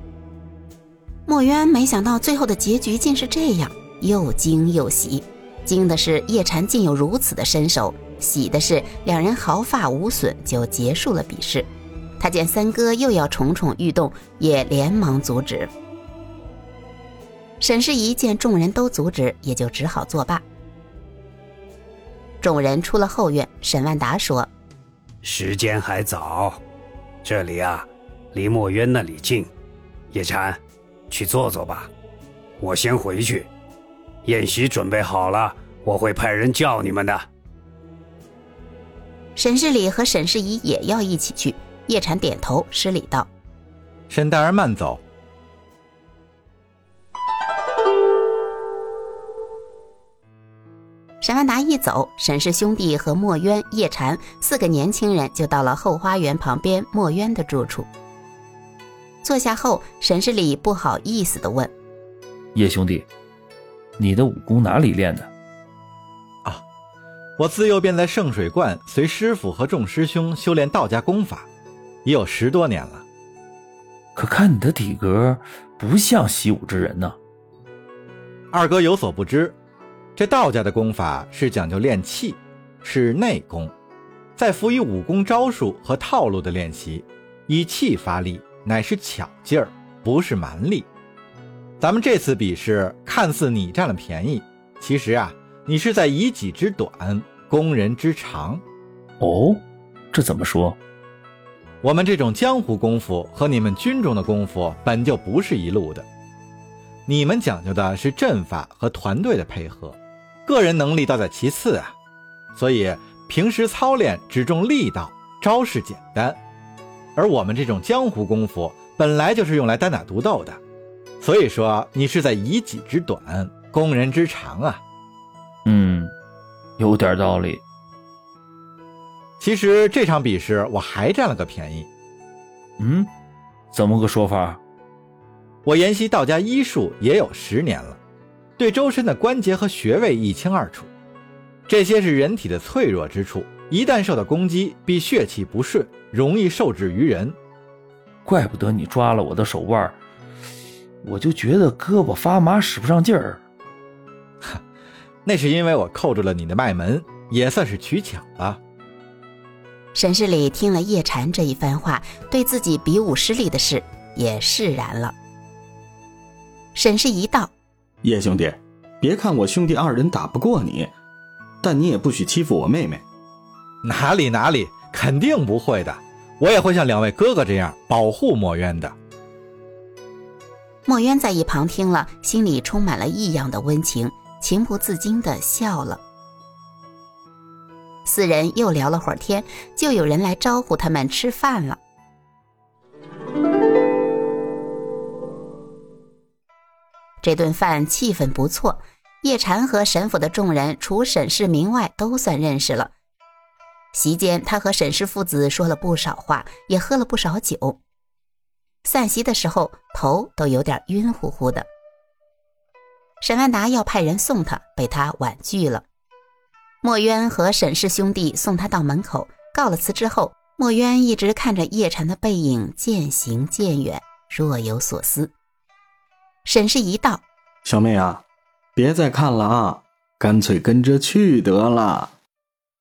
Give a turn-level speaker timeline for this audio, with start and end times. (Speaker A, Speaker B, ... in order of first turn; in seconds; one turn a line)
Speaker A: 1.3-15.7
Speaker A: 17.6-20.4
Speaker A: 22.4-24.5
Speaker B: 25.2-26.6
Speaker B: 27.2-29.5
Speaker B: 30.1-30.6
Speaker B: 31.1-31.9
Speaker B: 32.6-33.5
Speaker B: 34.2-37.2
Speaker A: 39.4-43.3
Speaker C: 44.1-45.0
Speaker A: 51.2-57.9
Speaker A: 59.2-61.7
Speaker D: 62.5-63.1
Speaker D: 64.0-65.3
Speaker C: 67.4-71.5
Speaker C: 72.0-73.0
Speaker D: 74.1-77.2
Speaker C: 78.5-79.5
Speaker C: 80.2-83.7
Speaker C: 84.4-90.9
Speaker C: 91.8-98.6
Speaker D: 99.2-100.8
Speaker C: 101.8-106.0
Speaker C: 107.1-111.9
Speaker C: 112.5-116.4
Speaker C: 117.2-120.6
Speaker C: 121.2-124.8
Speaker D: 125.7-126.1
Speaker D: 126.8-127.6
Speaker C: 129.4-131.9
Speaker D: 132.8-133.1
Speaker D: 133.7-134.6
Speaker C: 135.6-138.0
Speaker C: 138.6-140.9
Speaker C: 141.7-147.4
Speaker D: 148.2-150.0
Speaker D: 151.0-153.4
Speaker C: 155.2-158.6
Speaker A: 159.9-165.1
Speaker A: 166.8-167.5
Speaker E: 168.0-170.9
Speaker E: 171.6-173.0
Speaker C: 173.8-178.9
Speaker A: 180.9-186.0
Speaker A: 188.0-191.8
Speaker A: 197.2-202.9
Speaker A: 203.9-207.8
Speaker A: 208.8-211.7
Speaker A: 213.2-215.8
Speaker A: 216.8-225.3
Speaker A: 226.4-227.2
Speaker E: 227.6-228.2
Speaker E: 228.8-232.1